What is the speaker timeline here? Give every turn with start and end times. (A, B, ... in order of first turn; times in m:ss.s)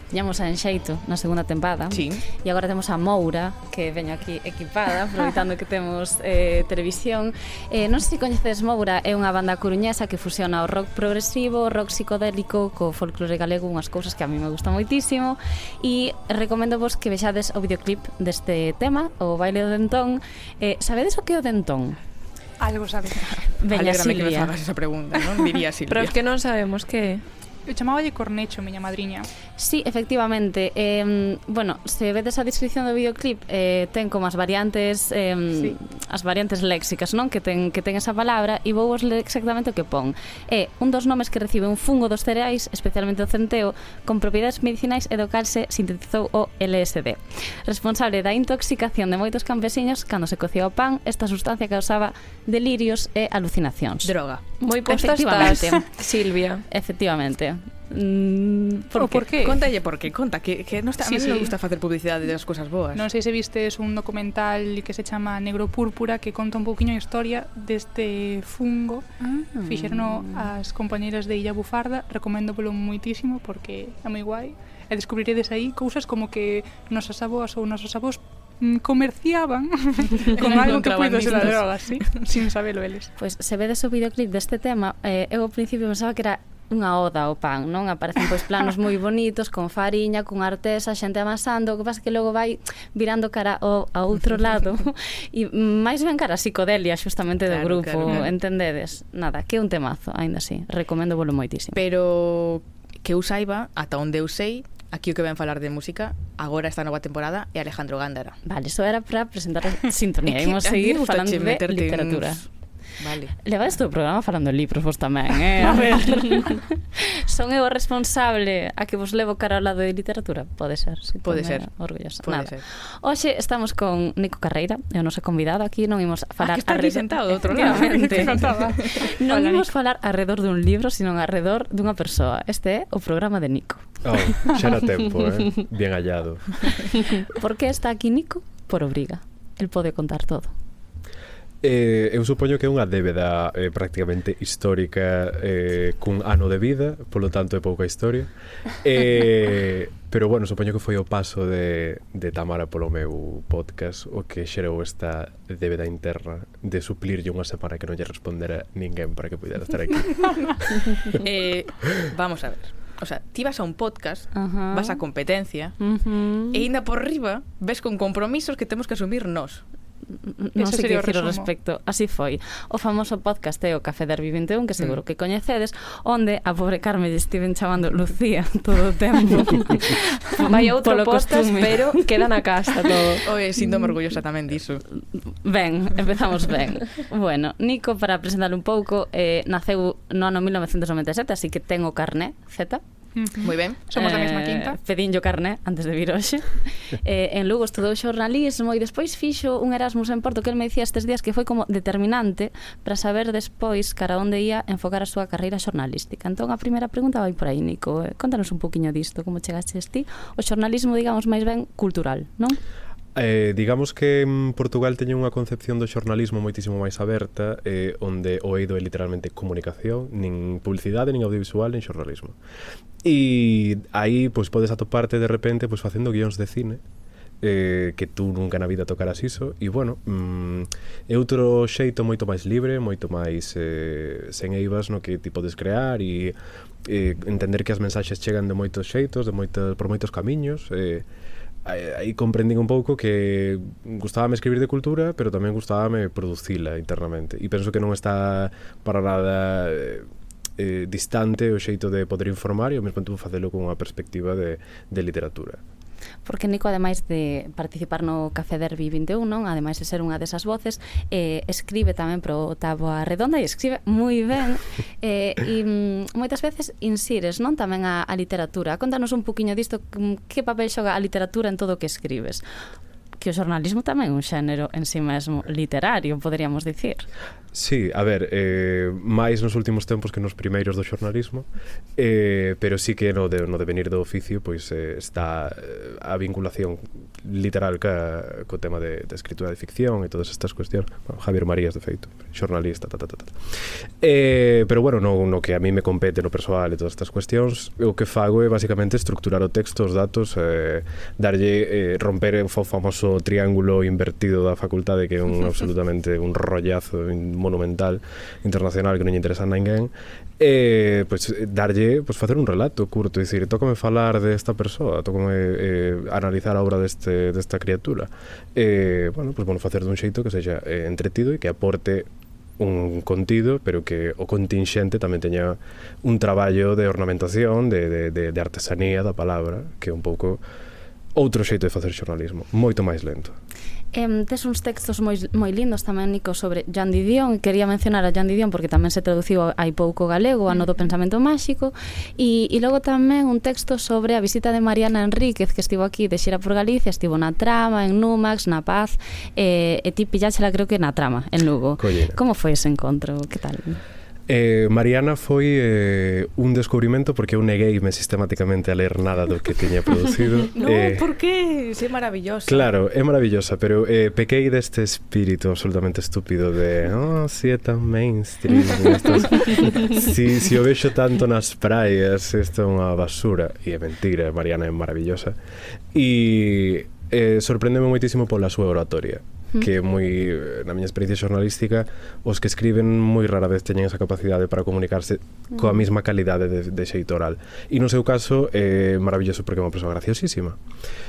0:00.1-0:22.0 A
0:01.9-0:02.2 B
0:22.6-0:23.3 C
0:23.6-0:24.5 A
0:23.7-0:26.2 B
0:25.9-0:27.2 D
0:27.7-0:29.3 C
0:29.6-0:54.2 A
0:35.5-0:35.8 C
0:54.0-0:54.4 B
0:54.6-0:56.6 D
0:54.8-0:55.8 A
0:56.7-0:59.3 A
0:59.0-0:59.6 C
0:59.4-1:03.1 B
1:01.0-1:01.5 C
1:03.0-1:23.1 C
1:09.4-1:10.5 A
1:20.3-1:22.2 B
1:23.2-1:41.8 A
1:37.5-1:38.3 B
1:38.1-1:38.4 C
1:41.7-1:48.4 B
1:48.4-1:52.5 A
1:50.3-1:53.4 B
1:53.4-2:13.9 A
1:55.7-1:56.4 C
2:01.2-2:02.6 B
2:06.4-2:09.1 B
2:07.5-2:09.7 C
2:14.0-2:16.7 E
2:17.4-2:20.5 A
2:21.6-2:40.3 E
2:41.2-2:45.8 B
2:44.4-2:45.0 A
2:45.8-2:46.7 A
2:46.5-2:49.6 B
2:50.1-3:02.2 A
2:50.6-2:51.5 C
3:00.5-3:03.2 D
3:03.2-3:04.8 B
3:03.6-3:04.1 A
3:05.1-3:12.8 A
3:13.2-3:14.8 C
3:13.4-3:13.8 B
3:13.9-3:32.6 A
3:33.2-3:42.4 E
3:43.0-3:46.8 E
3:47.4-4:01.1 E
4:01.6-4:10.1 E
4:10.6-4:15.6 E
4:16.2-4:32.4 A
4:33.2-4:37.1 A
4:37.5-5:30.4 E
5:31.2-5:33.4 E
5:33.9-5:53.8 A
5:51.8-5:52.2 E
5:54.3-6:01.0 E
6:00.5-6:02.7 B
6:02.5-6:15.4 E
6:15.9-6:30.6 E
6:25.5-6:25.9 A